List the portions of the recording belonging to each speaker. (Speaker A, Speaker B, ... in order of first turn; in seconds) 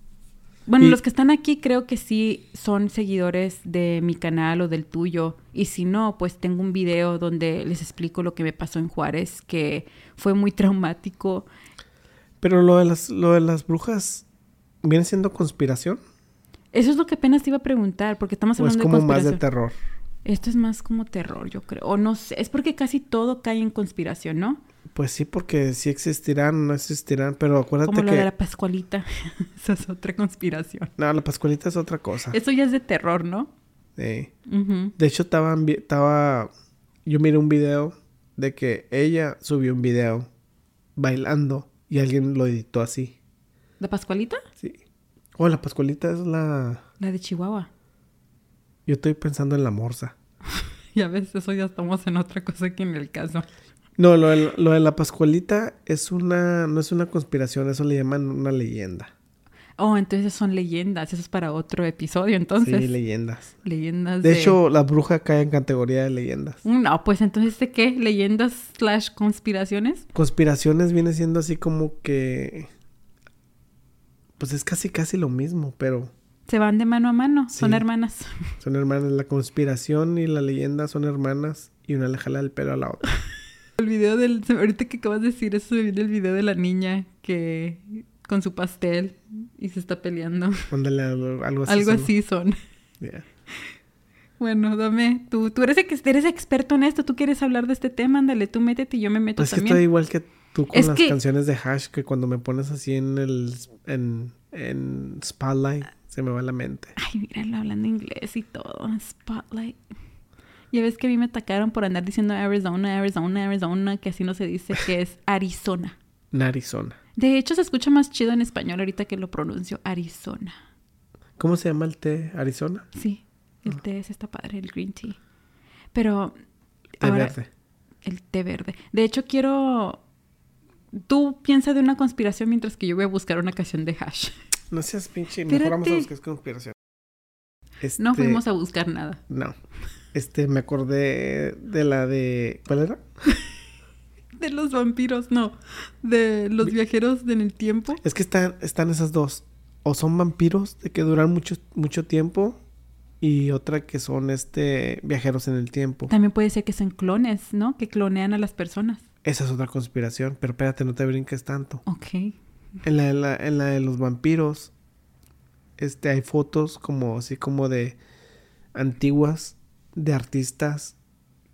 Speaker A: 0.7-11.5, 16.7-19.4, 20.2-24.6, 27.9-30.9, 32.3-33.5, 34.5-34.9, 43.8-44.4, 47.0-47.7, 50.5-53.5, 59.8-62.9, 63.6-64.6, 66.6-70.1, 76.5-78.5, 83.8-90.7, 91.7-92.6, 94.4-99.8, 100.7-101.2, 107.0-109.8, 110.7-116.0, 117.1-120.5, 122.9-125.2, 125.9-126.4, 127.0-127.3, 128.0-130.0, 130.9-134.3, 135.5-136.1, 138.0-139.2, 144.4-148.0, 156.1-159.0, 161.9-162.4
Speaker B: 12.4-14.2, 14.8-16.0, 18.6-19.8, 24.9-28.3, 31.0-32.4, 34.0-34.3, 35.0-36.5, 37.1-40.3, 41.0-43.2, 45.4-46.8, 48.9-50.1, 54.0-59.1, 62.6-63.5, 64.2-66.6, 70.1-72.7, 74.4-76.1, 77.5-77.8, 78.6-83.1, 90.7-92.1, 93.0-93.2, 99.4-106.9, 116.3-117.0, 121.4-122.9, 127.0-127.5, 134.7-136.8, 137.8-138.4, 139.3-139.6, 140.1-143.0, 148.0-152.6, 153.2-156.1, 159.2-161.8, 162.8-164.7, 165.8-168.0, 168.7-170.9